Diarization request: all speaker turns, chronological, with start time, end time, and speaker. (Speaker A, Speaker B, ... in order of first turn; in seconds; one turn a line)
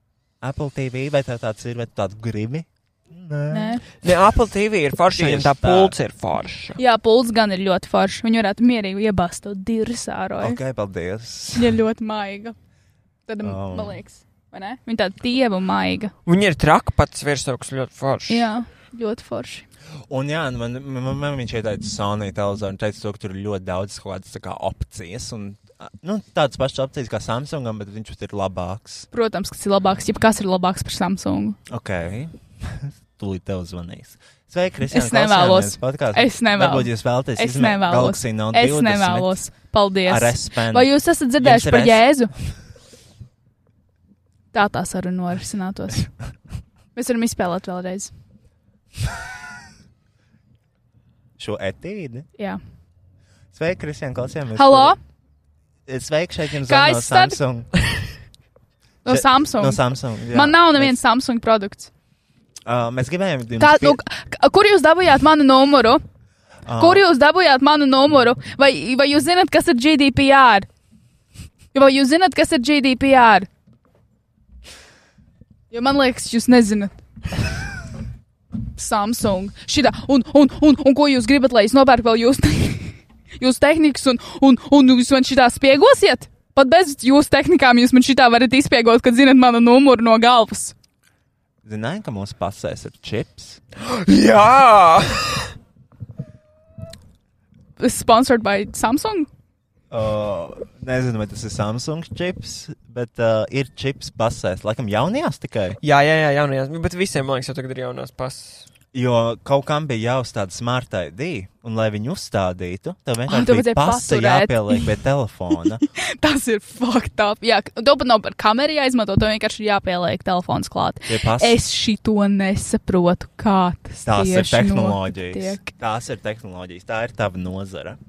Speaker A: 0.4-3.8
Speaker B: 3.5-3.8
Speaker C: 4.0-6.8
Speaker A: 5.2-6.0
Speaker B: 6.8-10.6
Speaker A: 10.4-11.8
Speaker B: 11.6-12.6
Speaker B: 13.3-16.1
Speaker A: 13.4-14.0
Speaker C: 16.3-18.5
Speaker B: 18.3-19.7
Speaker A: 20.1-29.1
Speaker B: 29.1-31.6
Speaker A: 31.7-39.4
Speaker B: 34.9-42.3
Speaker A: 40.0-42.1
Speaker B: 44.5-46.1
Speaker B: 47.0-48.1
Speaker A: 51.4-52.3
Speaker A: 53.5-55.0
Speaker B: 54.5-55.0
Speaker A: 55.9-57.7
Speaker B: 56.6-57.4
Speaker B: 59.0-61.9
Speaker A: 59.1-61.0
Speaker A: 62.7-64.0
Speaker B: 63.6-66.0
Speaker A: 66.7-67.0
Speaker B: 66.8-70.7
Speaker B: 71.7-73.5
Speaker B: 75.7-77.0
Speaker B: 78.8-90.8
Speaker A: 91.6-93.6
Speaker C: 93.8-95.5
Speaker B: 97.8-99.3
Speaker A: 99.9-105.8
Speaker C: 105.8-108.7
Speaker A: 108.9-115.8
Speaker B: 113.3-115.0
Speaker B: 115.8-125.7
Speaker A: 121.1-121.6
Speaker A: 124.0-128.0